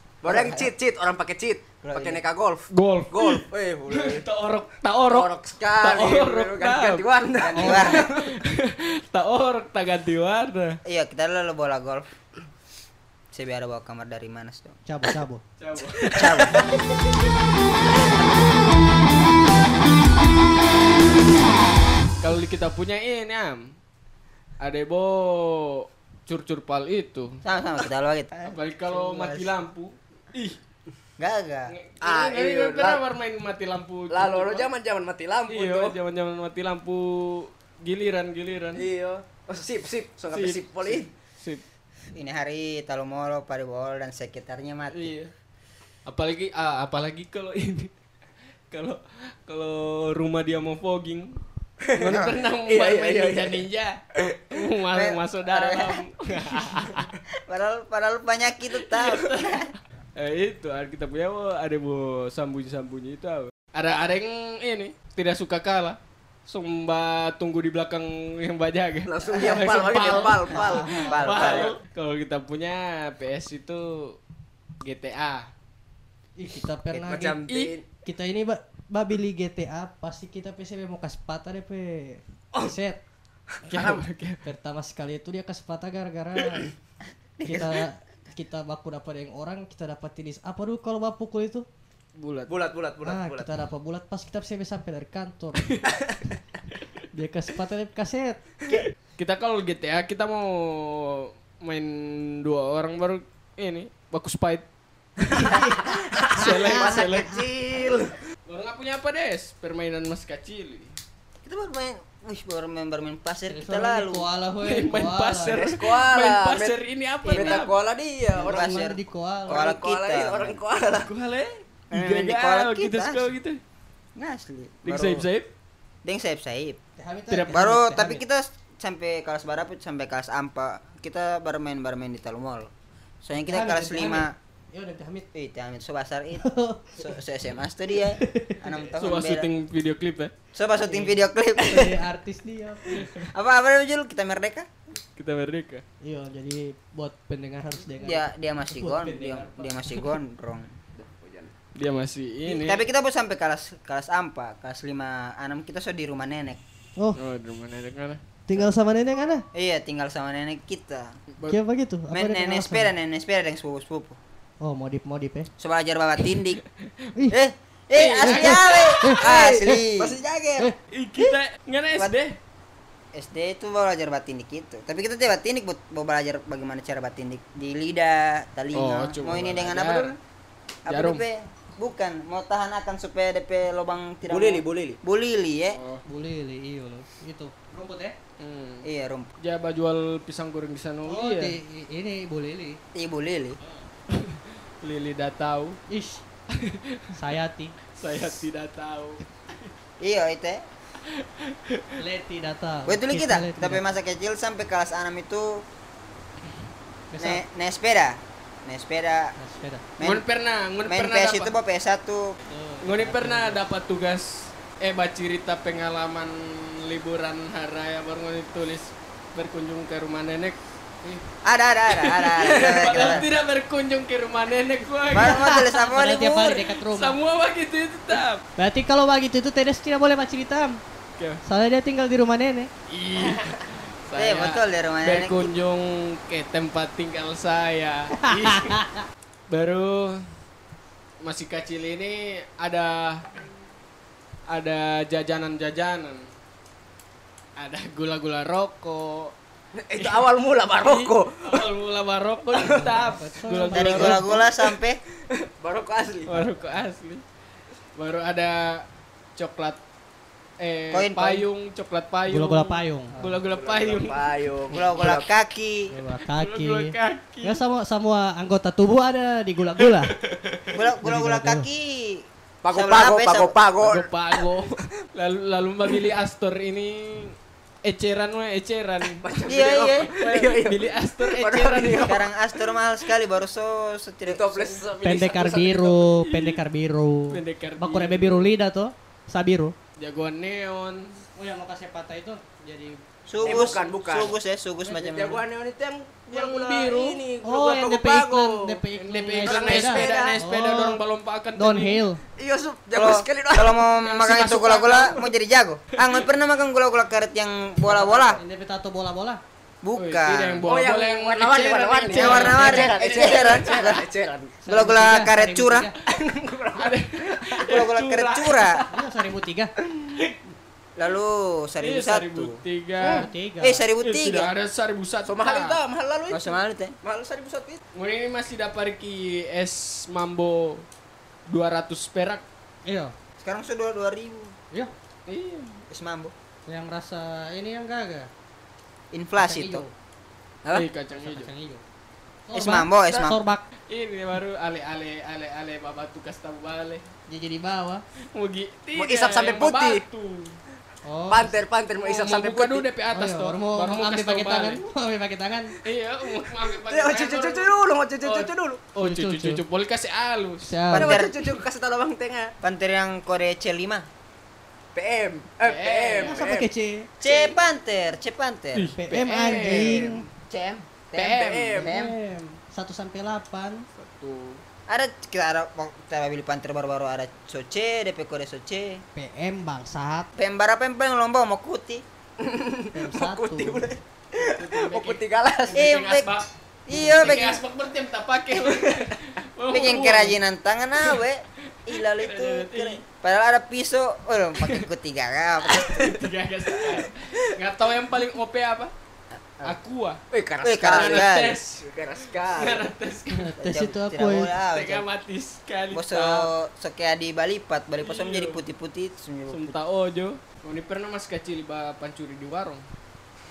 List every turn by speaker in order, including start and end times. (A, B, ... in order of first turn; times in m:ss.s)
0:00.2-0:04.2 A
0:00.2-0:00.7 B
0:01.8-0:02.2 B
0:02.7-0:07.1 C
0:05.1-0:08.2 A
0:07.4-0:08.1 B
0:07.5-0:08.0 D
0:07.7-0:10.8 C
0:10.8-0:12.1 B
0:13.3-0:14.8 B
0:14.8-0:15.4 D
0:15.6-0:16.6 C
0:16.1-0:16.7 B
0:22.2-0:23.7 C
0:24.6-0:27.4 C
0:27.4-0:29.5 B
0:28.4-0:30.6 C
0:31.2-0:31.7 B
0:31.7-0:34.7 C
0:32.0-0:33.0 A
0:34.1-0:36.0 A
0:35.5-0:38.8 C
0:38.7-0:41.1 A
0:40.3-0:41.6 C
0:42.1-0:45.1 B
0:44.9-0:45.3 C
0:46.0-0:47.9 C
0:48.7-0:51.4 C
0:51.9-0:53.6 A
0:51.9-0:57.1 C
0:52.0-0:52.4 B
0:54.9-0:56.0 B
0:57.5-0:59.7 B
0:58.8-1:14.2 C
1:09.1-1:11.8 A
1:10.5-1:11.4 D
1:10.5-1:11.7 B
1:14.8-1:15.5 C
1:16.4-1:17.4 D
1:17.0-1:17.8 A
1:17.5-1:17.8 C
1:18.0-1:23.0 D
1:23.6-1:24.0 A
1:23.6-1:24.4 C
1:24.4-1:26.7 D
1:27.4-1:27.8 B
1:27.4-1:31.6 D
1:32.2-1:32.6 C
1:32.5-1:33.5 A
1:33.0-1:35.7 D
1:35.7-1:36.0 C
1:37.1-1:38.4 D
1:39.2-1:44.6 C
1:45.3-1:45.7 D
1:45.4-1:48.1 A
1:46.3-1:47.4 C
1:46.4-1:46.7 D
1:48.4-1:51.0 C
1:51.4-1:54.3 B
1:53.5-1:55.6 D
1:54.6-1:57.7 C
1:55.5-1:58.7 A
1:57.2-1:57.6 B
1:58.3-2:00.6 B
1:58.4-1:59.6 D
1:59.5-2:01.1 A
2:01.0-2:03.6 C
2:01.9-2:03.3 B
2:04.2-2:05.2 B
2:04.8-2:05.5 C
2:06.0-2:06.8 B
2:07.0-2:08.2 D
2:07.3-2:07.7 C
2:07.5-2:12.7 B
2:13.2-2:14.3 B
2:13.4-2:15.3 D
2:15.3-2:16.4 B
2:16.4-2:17.1 D
2:17.0-2:19.5 B
2:18.2-2:18.6 D
2:19.0-2:20.3 C
2:20.5-2:22.0 B
2:20.8-2:23.1 D
2:23.3-2:24.7 B
2:25.2-2:25.8 C
2:26.0-2:29.8 D
2:28.0-2:30.7 B
2:31.0-2:31.5 A
2:31.7-2:32.8 C
2:32.4-2:36.6 B
2:37.2-2:38.2 C
2:38.5-2:39.5 D
2:39.5-2:41.1 B
2:41.5-2:42.9 D
2:42.1-2:44.2 B
2:44.6-2:45.5 D
2:45.6-2:46.6 B
2:47.3-2:51.4 B
2:48.0-2:49.0 C
2:48.2-2:49.8 D
2:49.2-2:49.7 A
2:50.9-2:52.4 C
2:53.1-3:00.2 B
2:58.7-3:00.1 C
3:00.8-3:05.8 B
3:00.9-3:01.2 C
3:04.3-3:05.0 A
3:05.7-3:06.0 C
3:06.0-3:08.2 D
3:08.4-3:08.9 C
3:08.8-3:09.3 B
3:09.4-3:11.6 C
3:11.0-3:12.8 D
3:12.9-3:13.6 B
3:14.1-3:15.8 C
3:15.9-3:16.2 D
3:16.5-3:17.0 C
3:17.1-3:17.7 D
3:17.9-3:19.2 C
3:20.0-3:20.6 B
3:21.2-3:21.8 C
3:22.0-3:23.9 D
3:22.8-3:25.6 B
3:27.1-3:27.4 D
3:27.2-3:29.3 B
3:29.4-3:29.8 D
3:30.0-3:30.2 B
3:30.0-3:31.5 C
3:30.8-3:32.4 B
3:32.5-3:33.6 D
3:32.8-3:40.6 C
3:41.4-3:43.3 B
3:41.9-3:45.5 C
3:45.1-3:46.6 B
3:45.3-3:47.2 D
3:46.2-3:48.4 C
3:48.6-3:50.8 D
3:51.4-3:52.7 D
3:52.9-3:58.8 C
3:54.2-3:55.5 B
3:59.5-4:00.2 C
4:01.2-4:03.3 C
4:04.5-4:06.3 C
4:07.6-4:09.3 C
4:09.7-4:11.7 A
4:10.0-4:14.4 C
4:12.5-4:13.0 A
4:12.6-4:14.4 D
4:13.7-4:15.0 B
4:15.3-4:16.4 A
4:16.2-4:17.2 C
4:18.0-4:19.8 C
4:20.6-4:24.2 C
4:20.9-4:21.4 B
4:22.3-4:23.3 D
4:23.5-4:25.3 A
4:24.7-4:25.9 B
4:25.9-4:30.1 D
4:26.3-4:27.6 C
4:29.8-4:30.8 C
4:30.7-4:33.6 B
4:31.0-4:31.7 D
4:32.6-4:34.1 A
4:33.8-4:39.3 C
4:39.2-4:42.2 A
4:39.4-4:40.1 B
4:40.1-4:42.3 C
4:42.0-4:44.8 B
4:44.2-4:46.0 A
4:45.0-4:49.7 D
4:46.1-4:46.6 C
4:47.3-4:48.5 C
4:50.0-4:51.2 C
4:51.4-4:53.0 D
4:53.3-4:55.4 B
4:53.4-4:58.8 A
4:56.3-4:57.2 C
4:57.4-5:01.0 D
4:58.9-5:02.0 C
4:59.4-5:00.4 A
5:01.5-5:02.2 D
5:02.4-5:05.1 A
5:02.9-5:08.4 B
5:04.1-5:05.2 C
5:06.0-5:06.2 C
5:07.8-5:09.4 D
5:09.8-5:10.6 B
5:09.9-5:13.9 C
5:10.6-5:14.6 A
5:12.1-5:14.0 B
5:14.6-5:15.9 D
5:14.7-5:15.9 B
5:16.0-5:17.6 A
5:16.7-5:18.8 C
5:17.7-5:18.8 B
5:18.9-5:19.7 D
5:21.0-5:22.6 B
5:21.8-5:23.3 C
5:23.0-5:23.3 A
5:23.0-5:23.8 D
5:23.6-5:24.5 B
5:24.0-5:25.8 C
5:25.2-5:27.8 A
5:26.3-5:26.9 B
5:27.9-5:30.8 C
5:31.5-5:32.4 C
5:32.8-5:33.1 D
5:33.4-5:34.5 B
5:35.3-5:35.8 C
5:35.9-5:36.3 B
5:36.7-5:38.3 D
5:39.1-5:39.8 B
5:39.4-5:39.9 D
5:40.7-5:41.5 C
5:41.2-5:41.8 D
5:42.5-5:43.6 D
5:42.5-5:43.4 B
5:43.9-5:47.0 C
5:47.3-5:48.0 D
5:48.3-5:50.6 C
5:49.0-5:50.0 A
5:51.0-5:51.6 D
5:51.3-5:52.9 A
5:52.0-5:54.8 C
5:53.1-5:55.7 D
5:55.8-6:00.7 C
5:56.7-5:58.8 A
5:59.0-5:59.6 D
6:00.6-6:01.2 D
6:00.9-6:01.4 B
6:00.9-6:02.5 A
6:02.6-6:04.1 B
6:04.9-6:06.7 A
6:05.6-6:06.4 C
6:06.2-6:07.1 D
6:07.2-6:08.9 B
6:07.2-6:07.5 A
6:08.7-6:10.1 C
6:09.0-6:10.3 D
6:09.4-6:10.2 A
6:10.4-6:12.2 B
6:11.1-6:11.9 C
6:11.2-6:11.9 A
6:11.8-6:13.8 D
6:13.9-6:14.6 C
6:14.9-6:19.0 B
6:19.1-6:20.3 D
6:20.4-6:22.0 B
6:22.4-6:25.9 A
6:22.9-6:23.9 D
6:24.6-6:30.4 C
6:25.7-6:27.6 B
6:28.6-6:29.0 A
6:29.7-6:36.1 B
6:31.9-6:33.0 C
6:34.6-6:34.8 C
6:35.9-6:38.9 C
6:36.8-6:37.0 A
6:39.6-6:40.2 C
6:40.3-6:41.3 A
6:40.6-6:41.6 B
6:40.8-6:41.8 C
6:41.8-6:42.9 A
6:42.4-6:43.6 C
6:43.3-6:44.6 D
6:43.6-6:45.0 B
6:44.7-6:46.5 C
6:45.9-6:49.8 B
6:48.0-6:48.6 C
6:49.5-6:52.8 C